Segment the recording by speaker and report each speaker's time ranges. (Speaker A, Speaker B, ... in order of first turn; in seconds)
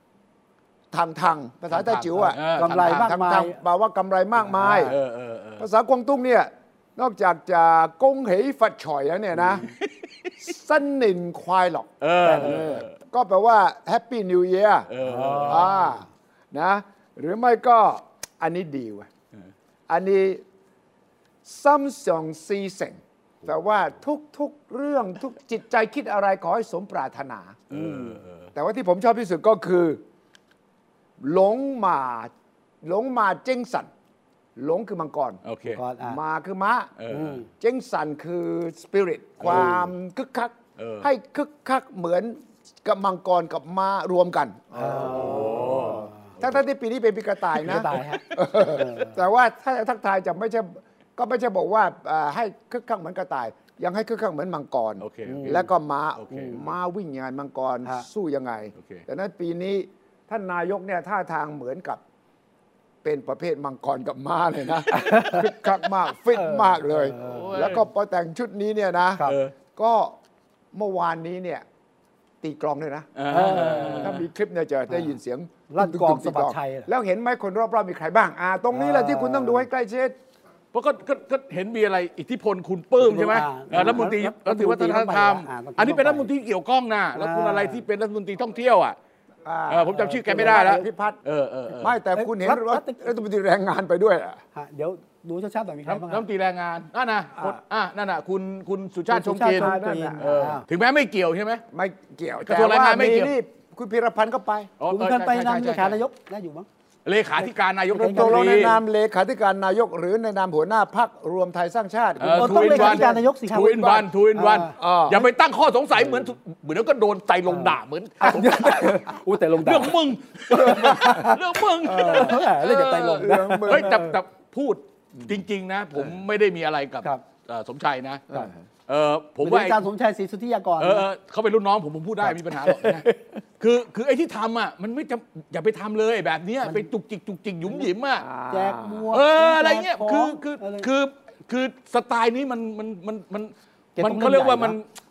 Speaker A: 0.9-5.0, 5.6-9.7, 10.4-14.9, 15.5-19.1, 19.9-20.4, 21.4-27.6, 28.5-30.0, 31.2-32.3, 32.8-33.9, 34.6-35.4, 36.0-36.9, 37.6-62.0, 63.0-69.2, 69.8-70.2, 70.7-71.7, 72.4-80.2, 89.4-91.2, 91.8-94.4, 99.5-100.2, 101.7-104.7, 108.1-113.1, 114.8-115.3, 120.6-121.2, 121.8-124.2, 138.2-139.1
Speaker B: 1.7-3.1, 4.8-5.7, 9.6-10.3, 12.0-12.9, 14.9-15.7, 27.7-28.5, 35.5-35.8, 37.0-37.5, 39.4-39.7, 40.8-41.1, 45.0-46.5, 47.9-48.4, 55.0-56.6, 58.8-59.0, 67.2-67.9, 69.2-69.5, 73.2-74.2, 80.7-89.0, 89.7-92.0, 95.9-101.6, 102.5-103.3, 104.8-106.0, 107.0-108.8, 112.2-119.1, 119.6-128.3, 128.9-129.8, 130.8-138.3, 139.1-144.8
Speaker C: 2.5-3.6, 4.4-4.9, 12.2-12.8, 15.0-16.0, 27.7-28.2, 35.7-36.2, 37.1-37.5, 39.5-39.9, 44.8-46.3, 47.6-49.2, 55.3-55.7, 65.1-65.5, 66.3-67.6, 73.3-74.2, 75.7-76.9, 78.7-79.7, 83.0-86.3, 87.2-87.8, 90.0-90.8, 92.2-93.2, 94.5-96.2, 99.1-100.6, 104.9-106.7, 107.4-108.8, 112.3-114.7, 116.0-116.3, 117.5-119.9, 120.5-124.2, 129.4-131.1, 136.6-136.9, 138.5-140.9, 144.0-144.8